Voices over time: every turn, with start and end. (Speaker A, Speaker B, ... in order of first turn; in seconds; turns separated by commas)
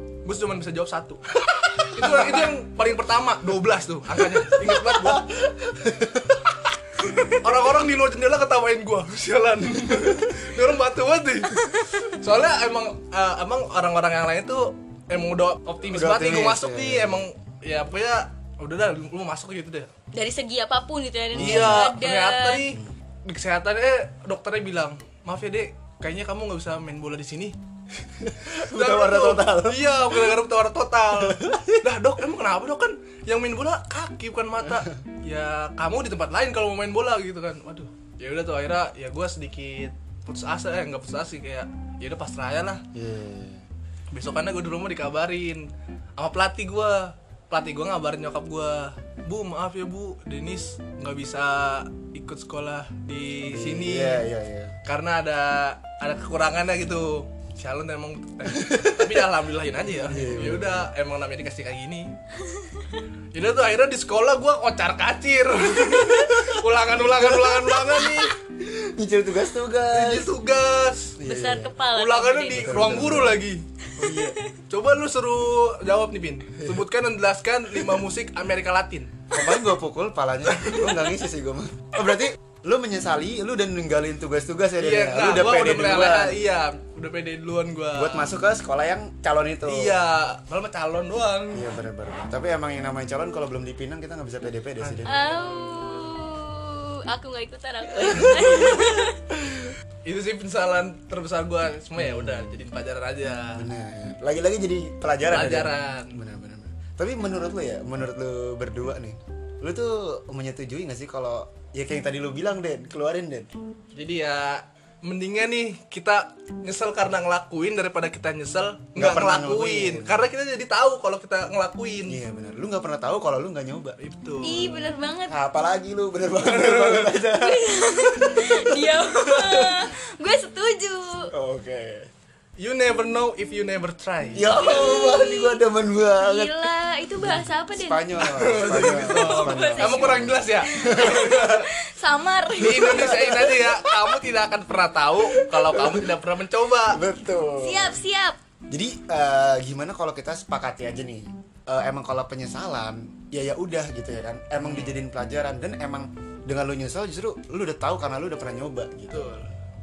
Speaker A: 0.2-5.3, Speaker B: 1.8-2.4, Speaker B: 4.6-6.6, Speaker A: 7.3-19.9, Speaker B: 15.9-17.3, Speaker C: 20.1-22.8, Speaker B: 21.3-21.9, Speaker A: 21.4-27.6, Speaker B: 28.2-29.9, Speaker A: 28.6-42.8, Speaker B: 31.2-31.9, Speaker B: 42.9-43.6, Speaker A: 44.1-54.2, Speaker B: 53.5-54.8, Speaker A: 54.9-62.1, Speaker B: 58.5-59.2, Speaker B: 60.0-60.9, Speaker C: 62.5-62.9, Speaker A: 63.3-68.3, Speaker B: 66.0-66.5, Speaker B: 67.2-70.3, Speaker A: 69.9-71.2, Speaker B: 71.2-71.7, Speaker C: 71.2-72.8, Speaker A: 72.0-73.6, Speaker B: 72.5-73.4, Speaker B: 74.0-74.4, Speaker C: 74.0-74.3, Speaker A: 74.7-79.1, Speaker B: 79.3-86.4, Speaker A: 80.5-81.0, Speaker A: 84.8-88.3, Speaker B: 88.0-90.0, Speaker A: 89.7-91.6, Speaker B: 91.5-95.2, Speaker A: 94.8-96.1, Speaker C: 95.1-99.2, Speaker B: 97.9-99.7, Speaker A: 100.0-103.6, Speaker B: 102.0-102.6, Speaker B: 103.5-113.5, Speaker A: 105.3-106.2, Speaker A: 113.9-122.2, Speaker B: 119.0-120.2, Speaker B: 122.1-129.8, Speaker A: 124.0-124.6, Speaker C: 124.4-125.4, Speaker A: 126.7-127.1, Speaker C: 127.3-131.3, Speaker B: 131.3-132.1, Speaker A: 132.6-134.5, Speaker B: 134.3-136.6, Speaker C: 134.5-135.6, Speaker C: 136.2-143.6, Speaker B: 137.2-141.6, Speaker A: 138.2-141.7, Speaker A: 142.6-147.0, Speaker B: 142.6-144.1, Speaker B: 145.3-146.1, Speaker B: 146.9-148.0, Speaker C: 147.6-148.4, Speaker B: 148.7-159.5, Speaker A: 154.6-155.0, Speaker A: 159.1-159.5